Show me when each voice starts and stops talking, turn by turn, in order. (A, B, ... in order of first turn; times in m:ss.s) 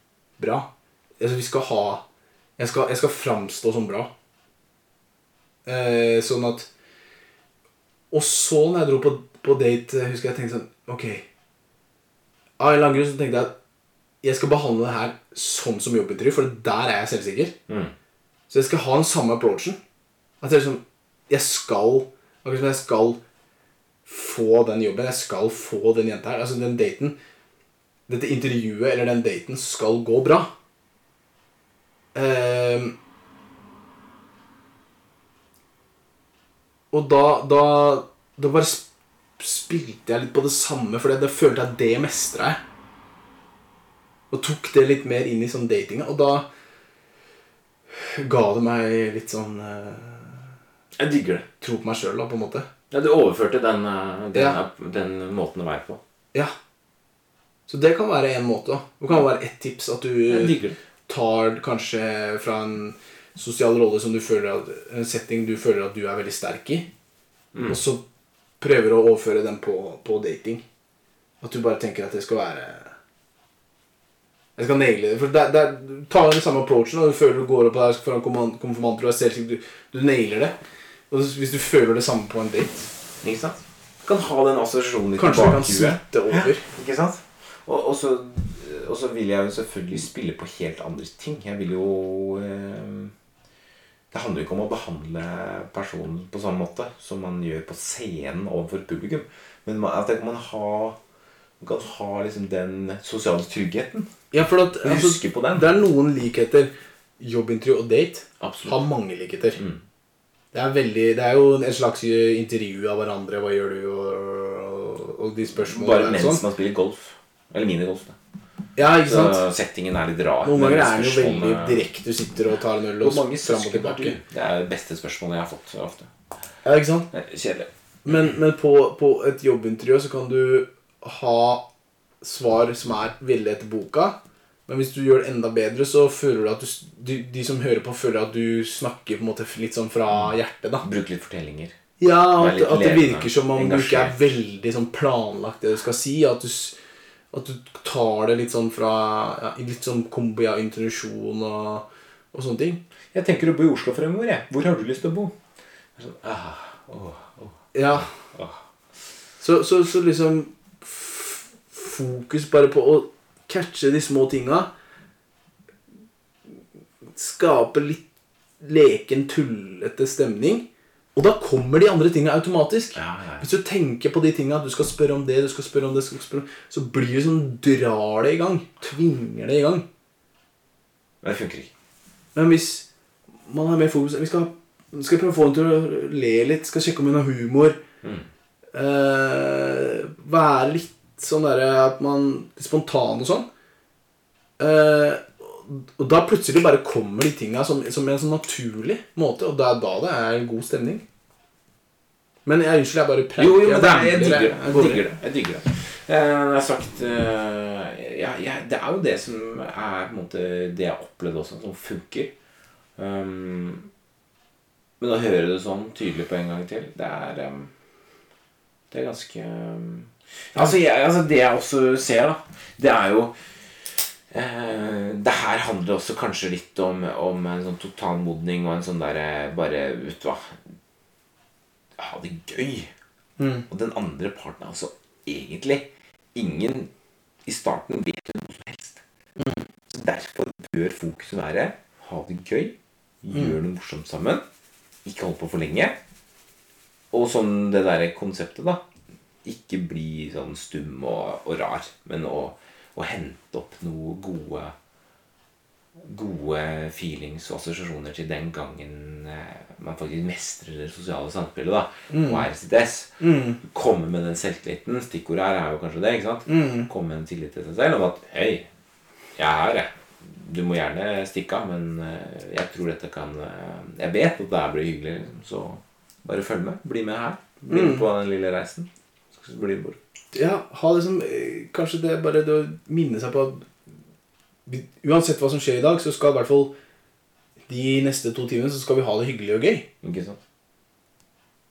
0:00.4-0:00.7 A
0:01.2-0:02.0 A
0:02.6-0:04.1 A
0:05.6-0:06.7 A
0:08.1-0:11.2 A
0:12.6-0:13.5 A
0:14.2-0:17.5 A
0:17.7-0:17.9 B
0:18.5-0:19.8 A
0:20.4-0:23.2 A
0:24.0-0:27.2 A
0:28.1-0:30.5 A
0:32.1-0:32.9 A
0:36.9-0:38.8 A
0:39.4-0:42.6 A
0:44.3-0:46.5 A
0:47.9-0:50.5 A
0:51.0-0:51.4 B
0:51.6-0:52.6 A
0:52.9-0:56.0 B
0:57.7-1:06.9 A
1:00.3-1:00.8 B
1:07.5-1:07.8 B
1:07.6-1:08.0 A
1:08.6-1:10.6 A
1:11.4-1:12.9 A
1:14.6-1:20.6 A
1:21.1-1:22.9 A
1:23.2-1:33.1 B
1:25.2-1:26.6 A
1:34.1-1:41.0 B
1:41.6-1:44.1 B
1:44.3-1:49.6 A
1:44.8-1:45.8 B
1:48.4-1:48.8 B
1:49.6-1:49.8 B
1:50.5-1:56.4 A
1:55.6-1:58.2 B
1:58.8-1:59.4 A
1:59.0-2:01.9 B
2:00.4-2:04.2 A
2:03.0-2:06.1 B
2:06.6-2:07.1 A
2:07.1-2:08.3 B
2:08.0-2:11.7 A
2:12.2-2:14.2 A
2:14.7-2:20.8 A
2:20.1-2:21.8 B
2:22.0-2:26.8 A
2:22.4-2:24.2 B
2:27.3-2:32.8 A
2:33.1-2:35.3 B
2:36.0-2:38.6 B
2:37.7-2:38.1 A
2:39.4-2:44.7 A
2:47.1-2:48.0 A
2:48.6-2:59.8 A
2:52.9-2:53.5 B
3:01.2-3:01.7 B
3:02.3-3:02.9 A
3:03.4-3:07.8 A
3:08.0-3:08.3 B
3:08.7-3:13.4 A
3:14.6-3:21.0 A
3:22.4-3:25.1 A
3:23.4-3:32.3 B
3:33.0-3:33.9 B
3:35.0-3:37.7 B
3:38.9-3:50.6 B
3:52.0-3:52.9 B
3:53.4-3:53.7 A
3:53.7-3:56.9 B
3:57.4-3:59.0 B
3:59.4-3:59.6 A
3:59.9-4:04.4 B
4:03.3-4:03.6 A
4:05.0-4:06.0 B
4:07.1-4:08.8 B
4:09.4-4:14.7 B
4:16.0-4:28.7 B
4:22.1-4:22.5 A
4:23.2-4:23.6 A
4:26.5-4:26.9 A
4:29.4-4:40.0 B
4:37.7-4:38.1 A
4:40.3-4:43.7 A
4:44.7-4:46.7 A
4:47.7-4:49.9 A
4:50.0-4:50.4 B